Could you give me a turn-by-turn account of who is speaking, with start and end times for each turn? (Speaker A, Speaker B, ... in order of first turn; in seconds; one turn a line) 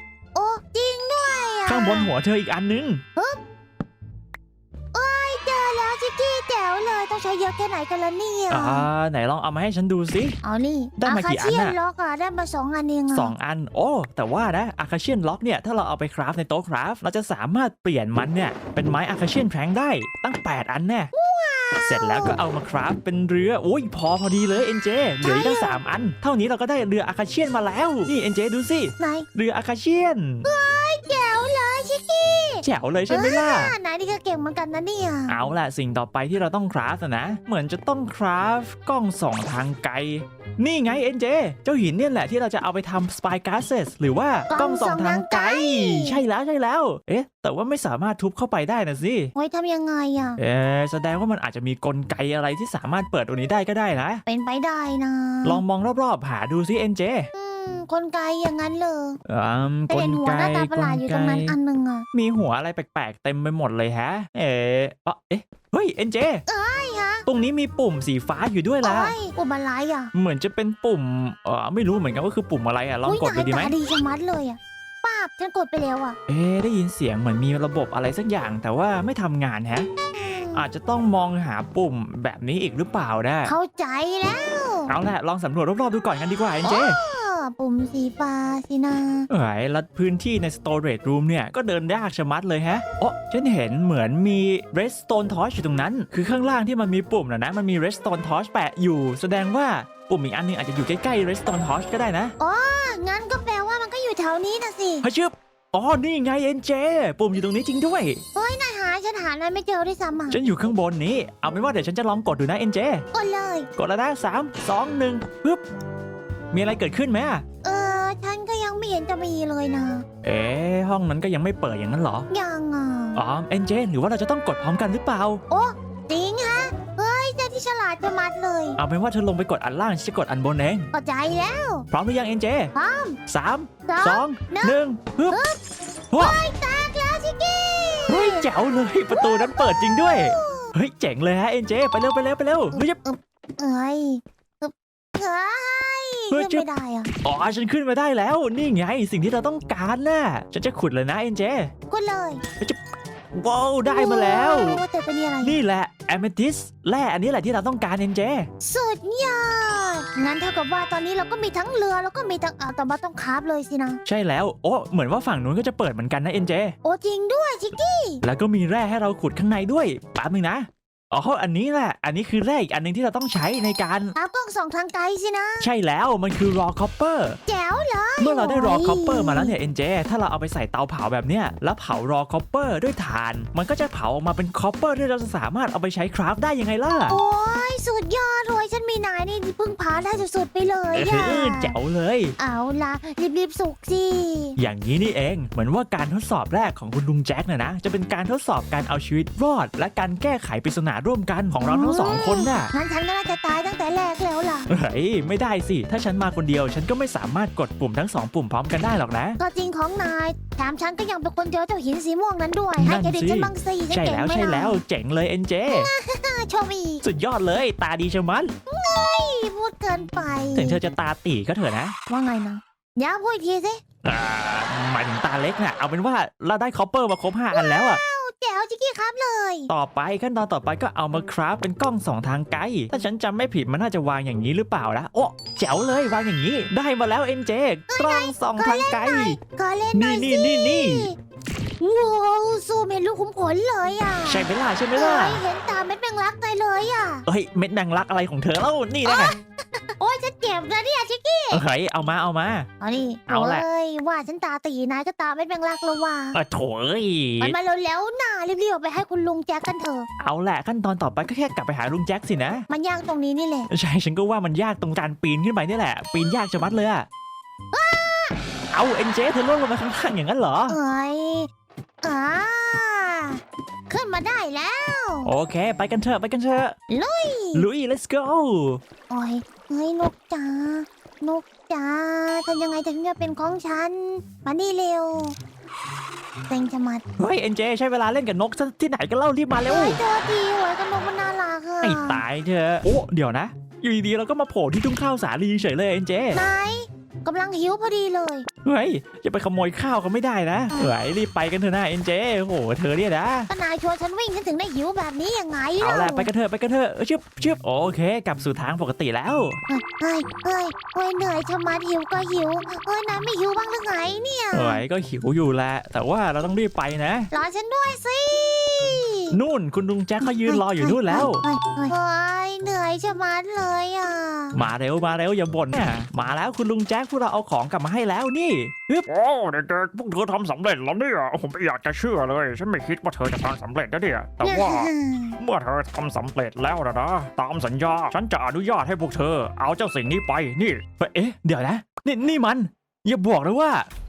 Speaker A: 0.3-2.1
Speaker B: 1.7-3.0
Speaker A: 4.9-8.9
Speaker B: 8.5-10.4
Speaker A: 10.4-13.3
Speaker B: 11.0-11.8
Speaker B: 13.1-21.1
Speaker A: 21.1-22.4
Speaker B: 21.8-30.5
Speaker A: 25.2-25.8
Speaker A: 29.0-29.3
Speaker A: 30.4-35.4
Speaker B: 32.6-33.7
Speaker B: 35.3-49.3
Speaker A: 44.5-46.2
Speaker A: 49.4-50.4
Speaker B: 50.4-54.2
Speaker A: 54.3-55.6
Speaker B: 55.4-57.3
Speaker A: 57.3-59.2
Speaker B: 59.3-61.6
Speaker A: 59.9-62.1
Speaker B: 62.1-66.4
Speaker A: 66.5-67.2
Speaker B: 67.3-69.2
Speaker A: 68.8-70.1
Speaker B: 70.1-73.8
Speaker A: 73.1-76.2
Speaker B: 76.3-79.9
Speaker A: 80.1-80.7
Speaker B: 80.5-83.5
Speaker A: 83.5-84.9
Speaker B: 84.9-87.0
Speaker A: 86.6-89.3
Speaker B: 89.3-102.3
Speaker A: 102.4-105.0
Speaker B: 105.0-108.2
Speaker A: 108.3-110.4
Speaker B: 110.3-113.0
Speaker A: 113.1-113.7
Speaker B: 113.8-115.6
Speaker B: 116.5-117.4
Speaker A: 117.6-120.0
Speaker B: 120.2-122.3
Speaker A: 122.3-123.2
Speaker B: 123.2-125.4
Speaker A: 125.5-128.8
Speaker B: 128.8-130.9
Speaker A: 130.9-131.9
Speaker B: 131.9-132.7
Speaker A: 132.7-133.2
Speaker B: 133.3-135.4
Speaker A: 133.9-134.8
Speaker A: 135.3-135.6
Speaker B: 136.1-136.4
Speaker A: 136.2-138.5
Speaker B: 138.1-143.0
Speaker A: 139.1-140.7
Speaker A: 142.7-147.1
Speaker B: 146.3-146.7
Speaker B: 147.2-151.7
Speaker A: 151.9-152.4
Speaker B: 153.3-154.8
Speaker A: 153.8-155.6
Speaker B: 155.4-158.5
Speaker A: 158.6-164.0
Speaker B: 164.1-166.8
Speaker A: 166.8-168.2
Speaker B: 168.2-174.1
Speaker A: 174.2-175.7
Speaker B: 175.6-177.4
Speaker A: 177.5-179.5
Speaker B: 178.2-187.2
Speaker A: 187.1-191.7
Speaker B: 191.0-192.3
Speaker A: 192.4-194.6
Speaker B: 194.6-202.7
Speaker A: 201.6-204.7
Speaker B: 204.7-209.4
Speaker A: 209.4-214.8
Speaker B: 212.8-215.9
Speaker A: 215.7-217.0
Speaker B: 217.0-218.5
Speaker A: 218.7-220.8
Speaker B: 220.6-222.0
Speaker A: 222.1-223.8
Speaker B: 224.0-228.0
Speaker A: 227.5-229.7
Speaker B: 229.7-239.4
Speaker A: 237.9-241.2
Speaker B: 239.9-241.1
Speaker A: 241.8-247.3
Speaker B: 244.3-245.4
Speaker B: 247.3-249.3
Speaker A: 249.1-251.6
Speaker B: 251.5-252.7
Speaker A: 252.8-256.4
Speaker B: 253.3-253.7
Speaker B: 256.3-257.6
Speaker A: 257.4-260.1
Speaker B: 260.2-262.6
Speaker A: 262.7-263.7
Speaker B: 263.7-267.1
Speaker A: 267.7-268.4
Speaker B: 268.7-270.8
Speaker A: 270.7-271.5
Speaker A: 272.0-275.3
Speaker B: 275.2-276.8
Speaker A: 276.9-277.7
Speaker B: 277.5-278.8
Speaker A: 279.1-285.4
Speaker A: 286.5-287.1
Speaker B: 287.2-290.0
Speaker A: 289.7-292.2
Speaker B: 291.8-296.4
Speaker A: 296.3-298.5
Speaker B: 298.6-303.5
Speaker A: 303.5-306.3
Speaker B: 305.8-309.6
Speaker A: 309.7-314.8
Speaker B: 314.5-317.3
Speaker A: 317.3-319.4
Speaker B: 319.3-321.4
Speaker A: 320.2-324.6
Speaker B: 324.5-329.1
Speaker C: 329.1-340.9
Speaker A: 334.4-335.4
Speaker B: 341.0-343.9